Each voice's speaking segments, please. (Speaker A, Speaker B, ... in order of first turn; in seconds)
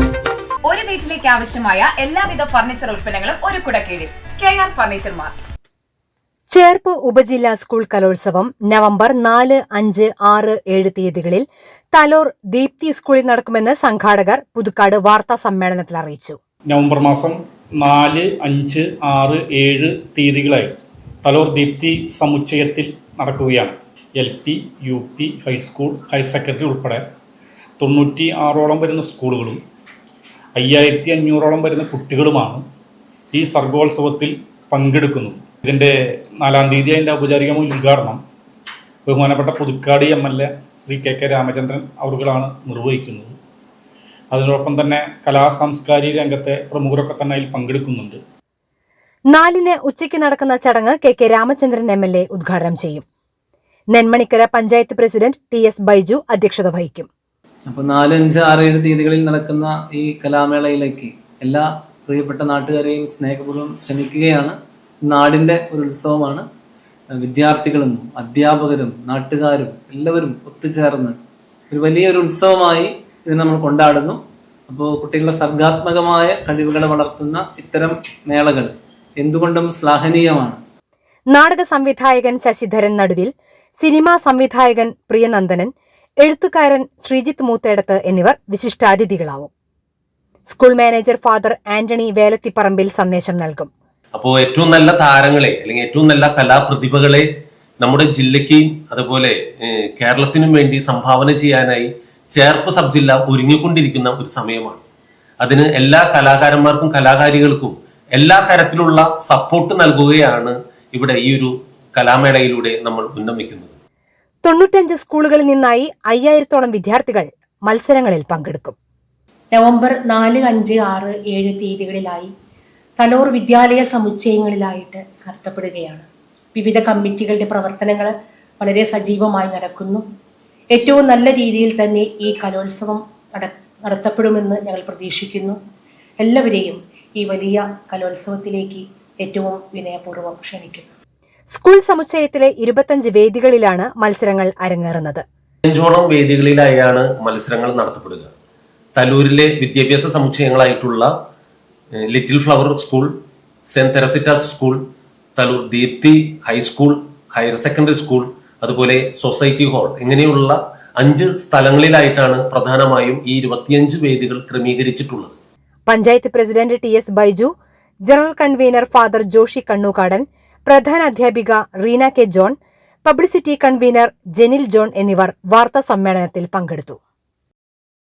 Speaker A: 0.7-5.3
Speaker B: 6.5-16.4, 49.3-53.0, 53.9-57.1, 81.3-85.7, 86.2-89.5, 90.5-93.7, 114.4-118.8, 141.5-145.2, 165.9-167.5, 168.1-177.0
Speaker C: 16.7-27.0, 27.8-29.6, 30.6-32.6, 33.3-38.2, 39.1-43.4, 44.3-48.2
Speaker D: 57.7-64.5, 65.1-66.5, 67.2-71.2, 71.7-80.6
Speaker E: 94.1-97.3, 97.8-104.8, 105.4-113.8, 145.7-148.3, 149.0-151.1, 152.1-153.1, 153.7-154.8, 155.4-165.4
Speaker F: 119.5-122.3, 123.0-130.0, 130.7-135.6, 136.2-140.9